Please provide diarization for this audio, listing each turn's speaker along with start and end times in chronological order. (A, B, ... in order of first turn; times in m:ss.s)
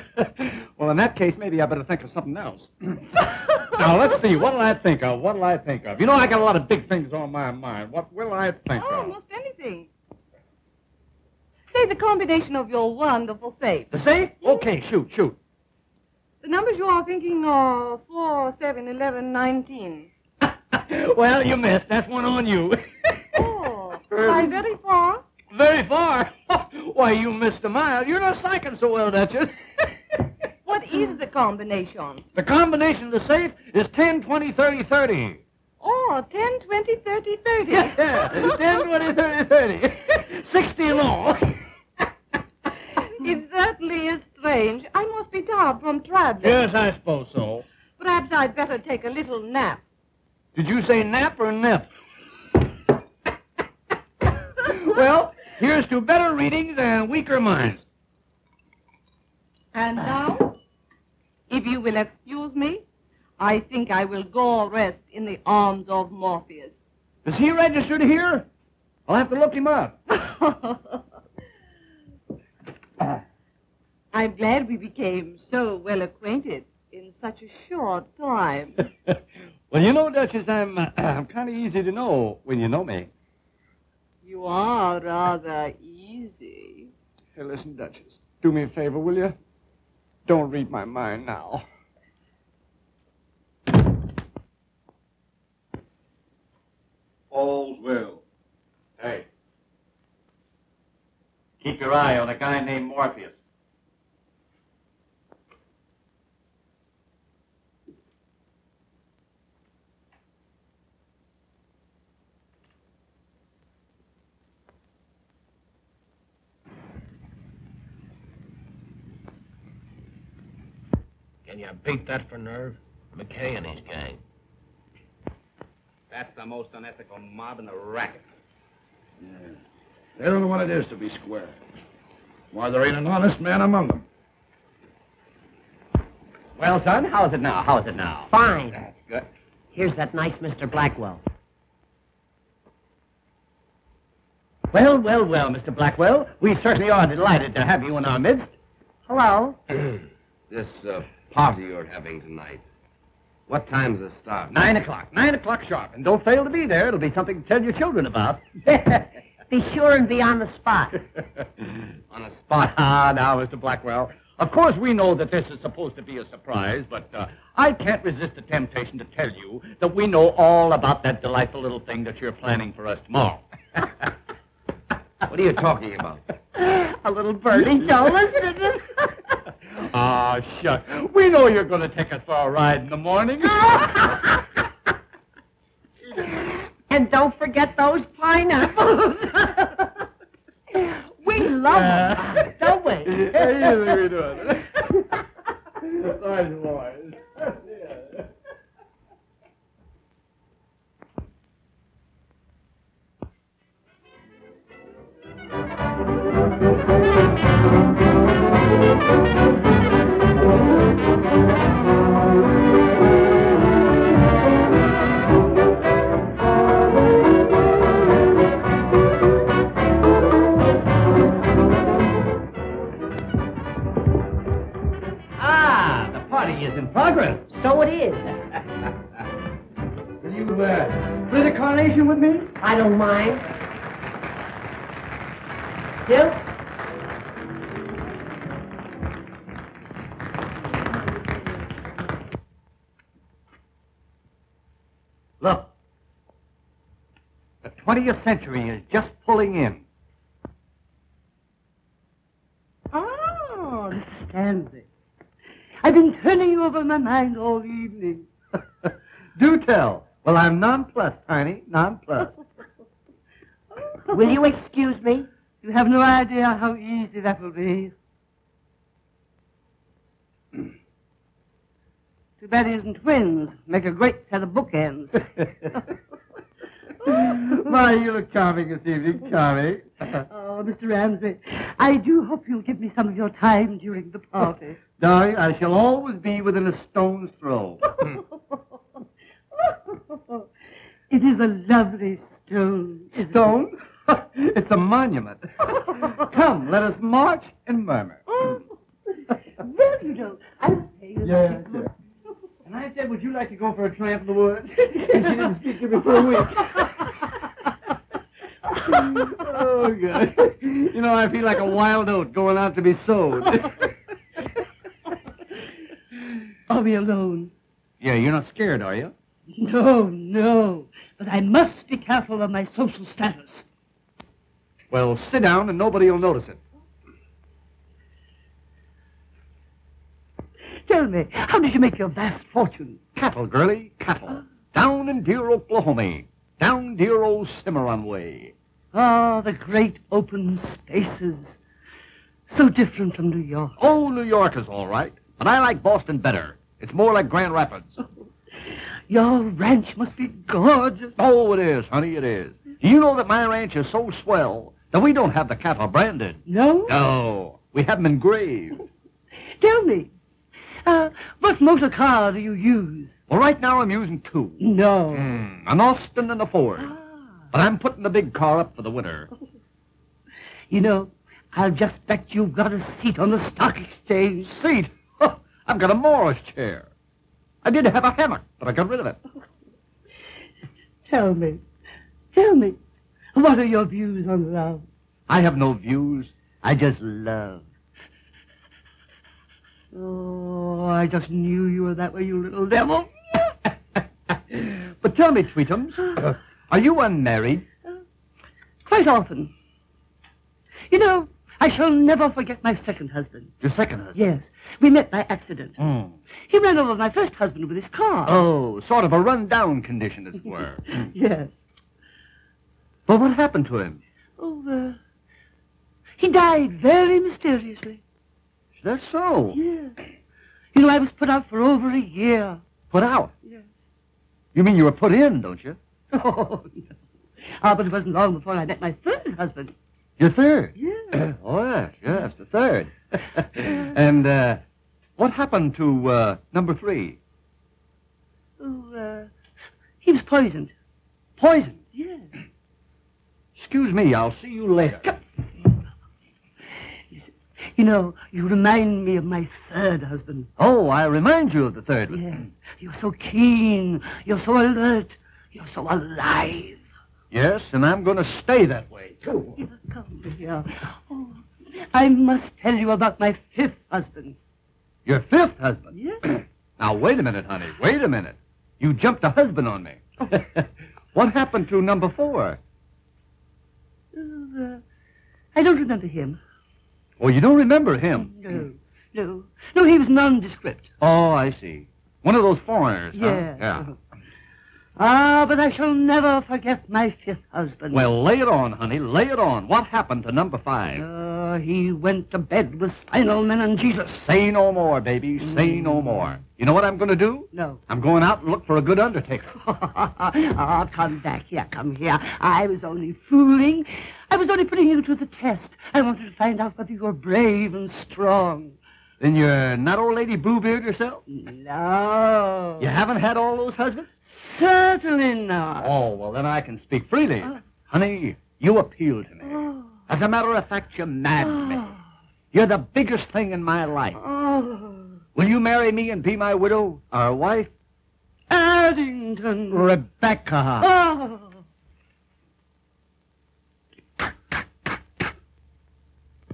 0:00.2-0:09.2 A
0:08.7-0:09.9 B
0:11.7-0:13.9 B
0:13.9-0:15.4 A
0:16.4-0:20.1 B
0:20.4-0:23.5 A
0:23.4-0:25.2 B
0:24.1-0:24.6 A
0:25.5-0:29.9 A
0:30.7-0:32.2 B
0:32.4-0:35.4 A
0:35.8-0:38.7 B
0:37.7-0:41.6 A
0:43.0-0:46.7 B
0:46.4-0:47.6 A
0:48.0-0:49.8 B
0:50.6-0:51.9 A
0:54.6-0:57.8 A
0:59.7-1:00.6 B
1:01.5-1:02.8 B
1:03.4-1:06.8 B
1:07.2-1:08.5 A
1:09.1-1:10.0 A
1:10.1-1:11.0 B
1:14.1-1:18.8 B
1:19.7-1:23.1 A
1:24.2-1:26.9 B
1:27.4-1:29.4 A
1:30.3-1:31.6 A
1:37.3-1:38.2 A
1:39.0-1:39.3 A
1:41.6-1:43.4 A
2:01.5-2:04.2 C
2:06.1-2:08.2 A
2:09.2-2:09.6 D
2:10.2-2:11.6 D
2:12.5-2:14.0 D
2:16.6-2:19.3 A
2:18.3-2:18.8 E
2:19.7-2:21.2 E
2:24.7-2:28.5 A
2:29.1-2:29.6 E
2:30.5-2:32.6 C
2:33.5-2:34.5 C
2:34.5-2:38.5 A
2:39.5-2:41.0 E
2:42.1-2:42.6 C
2:42.5-2:53.9 A
2:55.3-2:56.2 C
2:55.5-2:56.2 A
2:56.6-2:58.7 E
2:57.5-2:58.6 A
2:59.7-3:04.3 A
3:06.9-3:09.7 E
3:10.8-3:13.7 E
3:11.6-3:14.8 A
3:16.0-3:17.0 D
3:45.4-3:47.5 A
3:47.5-3:48.6 E
3:50.2-3:52.5 A
3:52.6-3:53.4 E
3:56.0-3:56.4 E
4:05.4-4:05.7 A
4:07.6-4:09.8 A
4:12.9-4:14.9 F
4:15.8-4:18.3 F
4:19.4-4:22.3 A
4:24.1-4:25.3 E
4:25.6-4:27.9 F
4:32.4-4:35.3 F
4:37.0-4:40.1 A
4:40.3-4:44.8 F
4:45.0-4:47.8 A
4:49.7-4:50.4 F
4:51.1-4:53.5 F
4:53.2-4:58.2 A
4:58.3-4:58.7 F
4:59.6-5:01.9 F
5:01.2-5:01.8 A
5:02.6-5:07.2 A
5:05.0-5:06.8 F
5:08.8-5:13.9 A
5:08.9-5:09.5 F
5:16.7-5:17.5 F
5:18.0-5:19.1 A
5:19.6-5:23.6 F
5:24.9-5:26.6 A
5:30.8-5:33.1 F
5:33.2-5:38.5 A
5:38.9-5:41.6 F
5:42.5-5:43.8 F
5:43.8-5:48.0 A
5:49.1-5:51.2 F
5:51.2-5:58.8 A
5:56.5-5:57.0 F
5:59.5-6:00.1 F
6:00.8-6:03.2 F
6:03.3-6:06.9 A
6:04.6-6:05.3 F
6:06.8-6:07.5 F
6:07.5-6:09.3 A
6:10.7-6:14.5 F
6:14.4-6:16.9 A
6:17.6-6:19.2 A
6:21.1-6:21.6 F
6:22.3-6:22.8 F
6:23.3-6:24.9 F
6:25.3-6:27.6 A
6:29.9-6:33.5 F
6:34.5-6:37.7 A
6:38.8-6:39.5 F
6:40.9-6:43.5 F
6:43.6-6:44.2 A
6:44.1-6:45.8 F
6:45.8-6:46.2 A
6:46.4-6:48.4 F
6:48.2-6:50.9 A
6:50.9-6:51.6 F
6:53.1-6:54.0 A
6:54.4-6:55.0 F
6:56.2-6:58.0 F
6:58.8-6:59.6 A
6:59.5-7:00.0 F
7:00.7-7:02.6 F
7:02.9-7:03.3 A
7:03.4-7:03.7 F
7:04.5-7:05.8 A
7:06.1-7:06.9 F
7:07.6-7:09.7 F
7:10.2-7:14.6 A
7:10.8-7:11.2 F
7:15.2-7:17.2 A
7:18.6-7:19.3 F
7:20.0-7:20.7 F
7:21.4-7:21.8 A
7:21.9-7:22.3 F
7:23.6-7:25.1 A
7:27.1-7:30.5 F
7:30.6-7:32.3 A
7:32.1-7:36.8 F
7:37.3-7:39.6 A
7:39.6-7:44.4 F
7:45.1-7:45.9 A
7:45.9-7:46.3 F
7:46.8-7:52.6 A
7:54.1-7:54.8 F
7:55.6-7:56.4 F
7:57.2-7:58.4 A
7:58.3-8:00.9 F
8:01.0-8:03.9 A
8:03.1-8:04.0 F
8:05.0-8:08.1 F
8:07.9-8:11.0 A
8:11.0-8:14.1 F
8:14.0-8:19.6 A
8:15.4-8:16.3 F
8:17.5-8:17.8 F
8:19.6-8:28.8 F
8:29.2-8:31.2 A
8:31.3-8:32.9 F
8:32.8-8:34.1 A
8:34.3-8:35.9 F
8:35.8-8:41.9 A
8:39.4-8:40.0 F
8:41.4-8:42.0 F
8:42.5-8:44.2 A
8:44.2-8:45.2 F
8:45.4-8:47.7 A
8:48.5-8:49.9 F
8:49.7-8:50.9 A
8:50.8-8:51.6 F